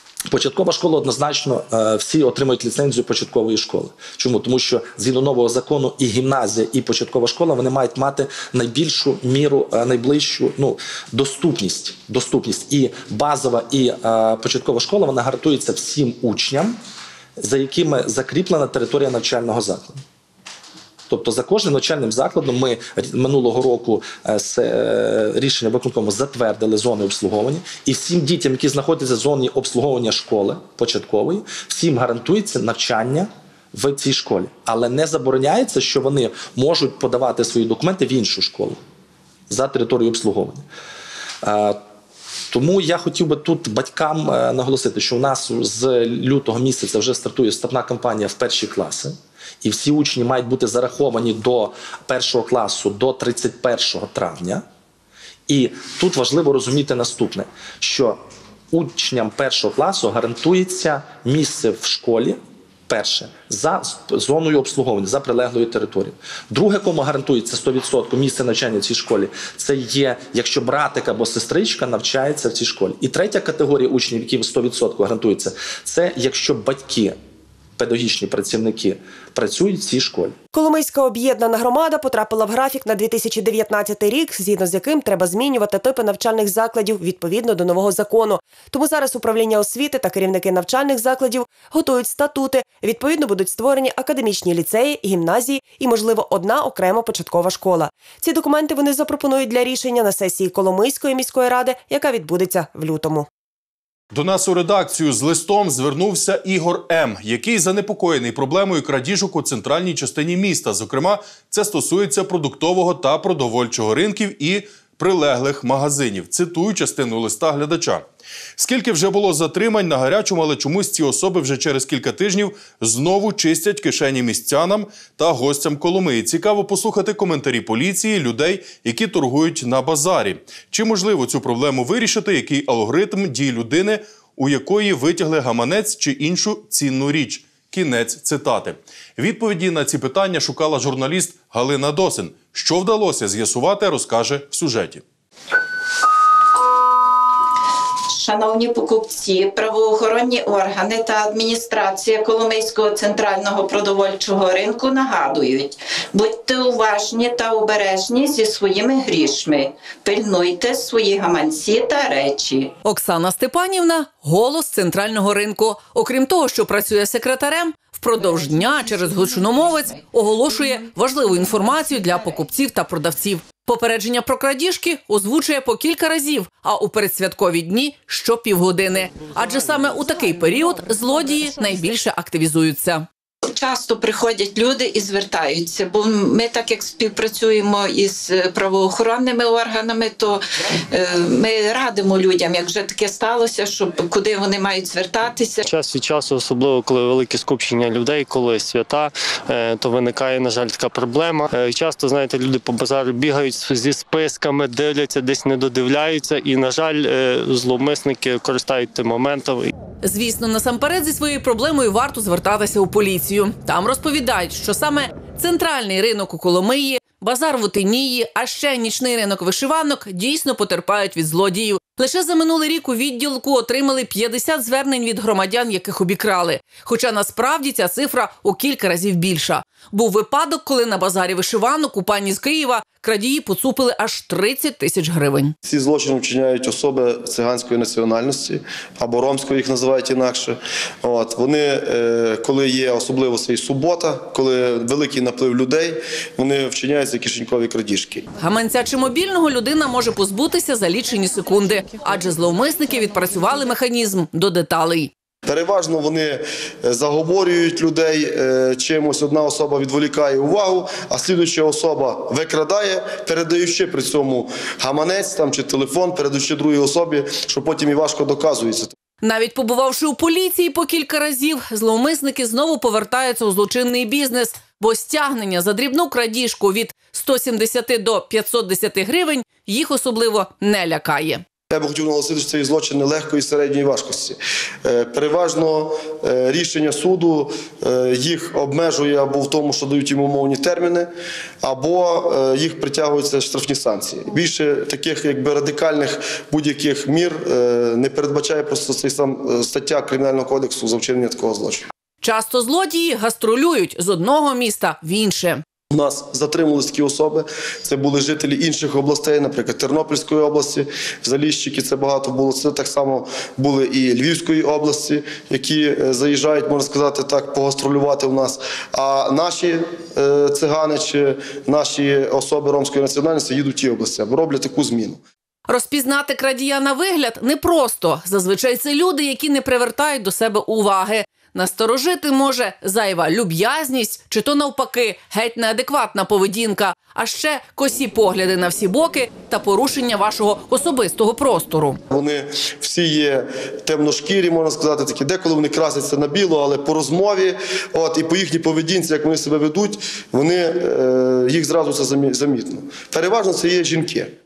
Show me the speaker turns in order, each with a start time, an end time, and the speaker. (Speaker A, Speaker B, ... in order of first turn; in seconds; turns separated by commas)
Speaker A: 0.3-16.8, Speaker A: 17.4-20.0, Speaker A: 21.1-38.8, Speaker A: 39.5-40.6, Speaker A: 41.4-41.8, Speaker A: 42.5-54.6, Speaker A: 55.5-77.2, Speaker A: 77.8-80.4, Speaker B: 80.5-103.3, Speaker C: 104.1-118.0, Speaker C: 118.6-145.0, Speaker D: 148.1-162.7, Speaker E: 162.8-183.1, Speaker D: 183.4-195.7, Speaker F: 195.7-209.7, Speaker E: 210.0-235.6, Speaker G: 235.7-248.3, Speaker E: 248.4-255.1, Speaker G: 255.4-268.9, Speaker E: 269.2-281.4, Speaker G: 281.7-291.1, Speaker G: 291.6-301.9, Speaker E: 302.2-305.6, Speaker G: 305.9-325.2, Speaker E: 325.7-342.0, Speaker G: 342.1-354.3